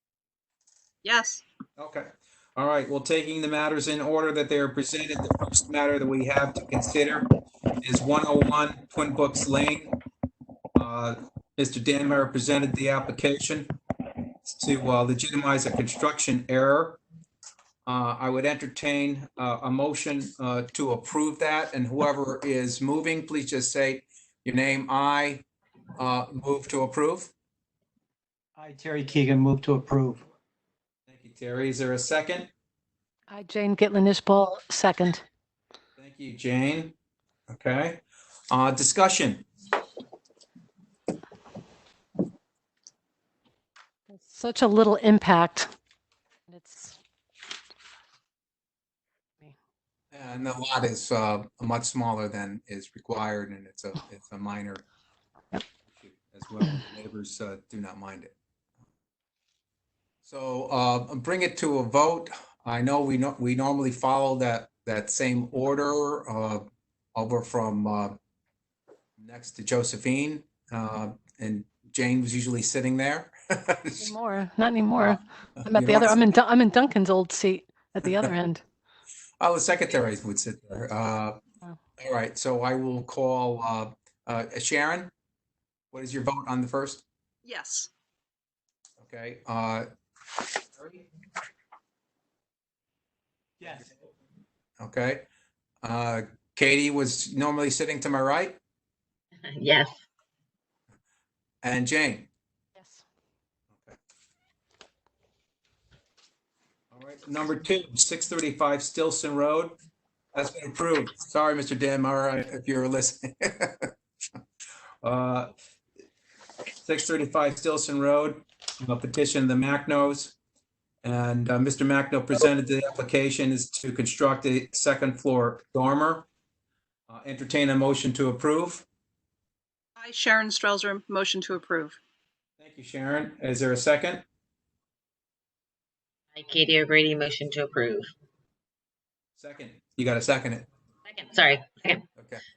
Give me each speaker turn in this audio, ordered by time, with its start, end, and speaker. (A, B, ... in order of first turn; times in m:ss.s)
0:01.0-0:01.4 A
0:01.8-0:07.3 B
0:07.8-0:09.9 B
0:10.8-0:13.7 B
0:14.4-0:17.0 B
0:17.8-0:25.4 B
0:26.0-0:27.3 B
0:28.6-0:30.2 C
0:31.1-0:32.5 B
0:33.3-0:35.2 D
0:36.0-0:37.0 B
0:37.5-0:39.4 B
0:44.1-0:45.7 D
0:46.5-0:47.0 D
0:50.1-0:54.8 B
0:55.9-0:58.3 B
1:00.2-1:08.2 B
1:09.2-1:14.1 B
1:14.0-1:18.6 D
1:15.0-1:16.2 B
1:19.4-1:21.4 B
1:22.0-1:25.1 B
1:25.9-1:27.0 B
1:27.4-1:27.9 A
1:29.0-1:29.9 B
1:30.8-1:31.0 B
1:33.6-1:33.9 C
1:34.8-1:35.2 B
1:35.8-1:38.6 B
1:39.4-1:39.9 E
1:41.6-1:42.3 B
1:42.8-1:43.0 D
1:43.7-1:44.0 B
1:46.9-1:49.8 B
1:50.4-1:53.9 B
1:55.0-1:55.5 B
1:56.8-2:00.4 B
2:01.0-2:06.3 B
2:07.1-2:08.8 B
2:10.0-2:12.0 A
2:12.6-2:14.2 B
2:16.3-2:18.1 E
2:19.4-2:20.7 B
2:21.0-2:22.0 E
2:22.2-2:22.4 B